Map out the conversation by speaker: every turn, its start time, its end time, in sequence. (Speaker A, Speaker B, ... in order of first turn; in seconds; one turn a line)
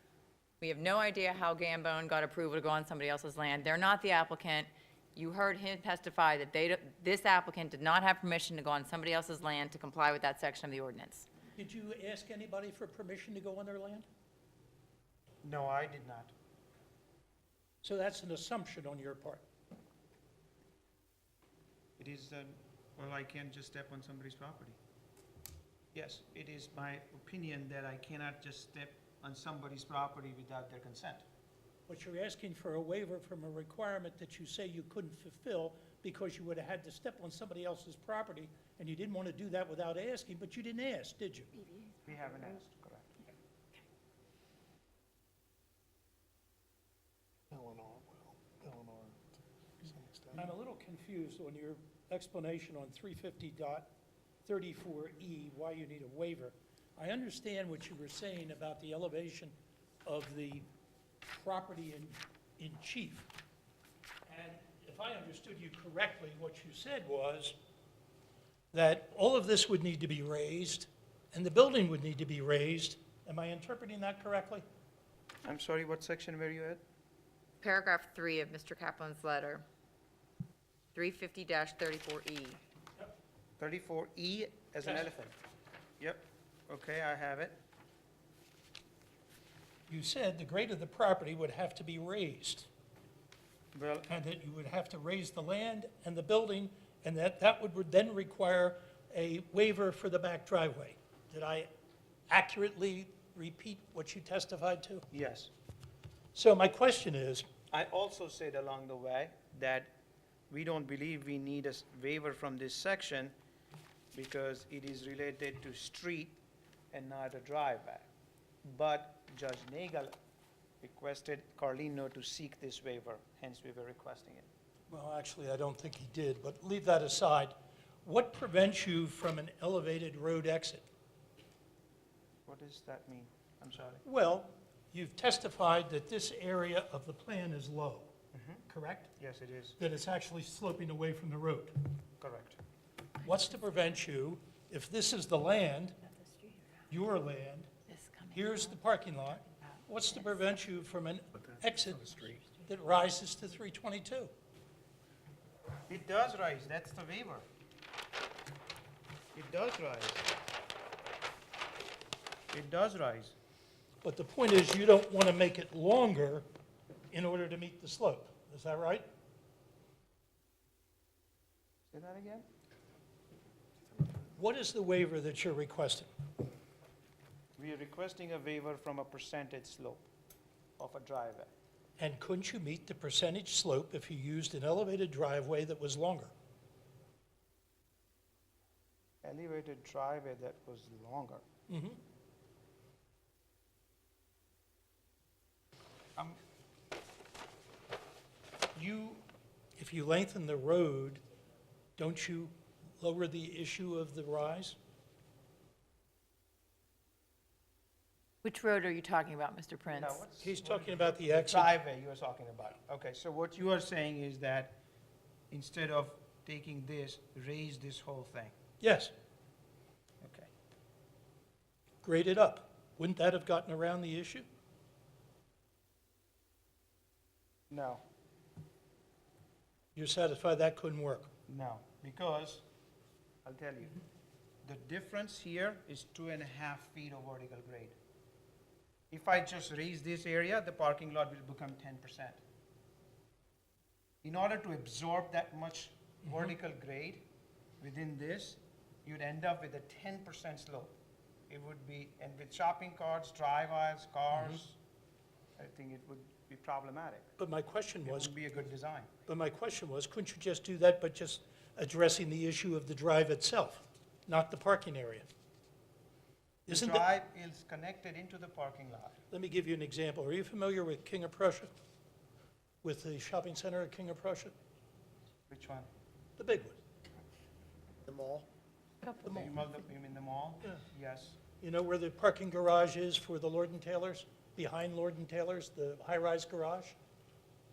Speaker A: 0.6-11.3
Speaker B: 11.6-14.1
Speaker C: 15.4-16.3
Speaker B: 17.8-19.4
Speaker C: 22.0-24.8
Speaker C: 25.9-31.2
Speaker B: 31.9-41.5
Speaker A: 41.7-42.0
Speaker C: 42.0-43.2
Speaker D: 47.5-49.2
Speaker D: 49.8-50.5
Speaker B: 50.3-53.9
Speaker B: 54.4-59.5
Speaker B: 60.0-60.6
Speaker B: 61.3-63.3
Speaker B: 64.3-67.5
Speaker B: 68.7-74.6
Speaker C: 75.4-76.8
Speaker A: 77.6-79.6
Speaker A: 80.9-82.6
Speaker C: 83.6-85.3
Speaker B: 84.8-85.1
Speaker C: 86.0-87.6
Speaker B: 89.9-92.7
Speaker C: 93.7-94.1
Speaker B: 94.1-101.7
Speaker B: 102.3-105.0
Speaker C: 105.1-105.5
Speaker B: 106.3-107.5
Speaker C: 107.7-109.9
Speaker C: 110.5-113.3
Speaker C: 114.1-116.4
Speaker C: 116.9-118.1
Speaker C: 118.6-120.1
Speaker C: 120.8-124.5
Speaker B: 124.9-130.8
Speaker C: 132.4-134.0
Speaker B: 134.0-138.1
Speaker C: 138.3-138.6
Speaker B: 138.7-139.1
Speaker C: 139.2-139.8
Speaker B: 139.8-141.7
Speaker C: 142.2-142.6
Speaker B: 143.2-145.9
Speaker A: 146.3-146.6
Speaker B: 146.9-147.7
Speaker A: 147.9-148.8
Speaker B: 148.3-154.3
Speaker C: 155.9-157.4
Speaker C: 159.3-160.3
Speaker C: 162.5-163.3
Speaker B: 164.0-166.4
Speaker B: 167.1-169.1
Speaker C: 171.9-172.5
Speaker B: 174.3-176.1
Speaker C: 177.6-180.1
Speaker C: 180.8-181.5
Speaker B: 182.0-186.3
Speaker C: 189.2-191.4
Speaker B: 191.7-192.0
Speaker C: 198.7-199.2
Speaker B: 199.8-201.2
Speaker B: 202.0-204.8
Speaker A: 208.4-210.2
Speaker C: 209.9-214.8
Speaker B: 210.4-211.7
Speaker C: 215.5-218.5
Speaker B: 218.8-219.1
Speaker C: 220.2-220.5
Speaker B: 222.0-224.4
Speaker C: 227.7-228.0
Speaker B: 229.9-231.3
Speaker C: 231.5-232.6
Speaker C: 233.4-234.0
Speaker C: 234.6-237.9
Speaker C: 239.1-242.4
Speaker C: 244.2-247.2
Speaker C: 247.8-250.9
Speaker C: 251.5-254.8
Speaker C: 255.6-257.3
Speaker B: 257.4-258.3
Speaker C: 258.0-259.1
Speaker B: 259.2-265.2
Speaker B: 266.7-267.1
Speaker C: 266.7-269.2
Speaker B: 269.3-271.7
Speaker B: 272.8-274.5
Speaker C: 275.5-275.9
Speaker B: 276.4-276.8
Speaker B: 278.1-278.4
Speaker A: 279.1-279.3
Speaker C: 279.2-281.4
Speaker B: 281.6-287.0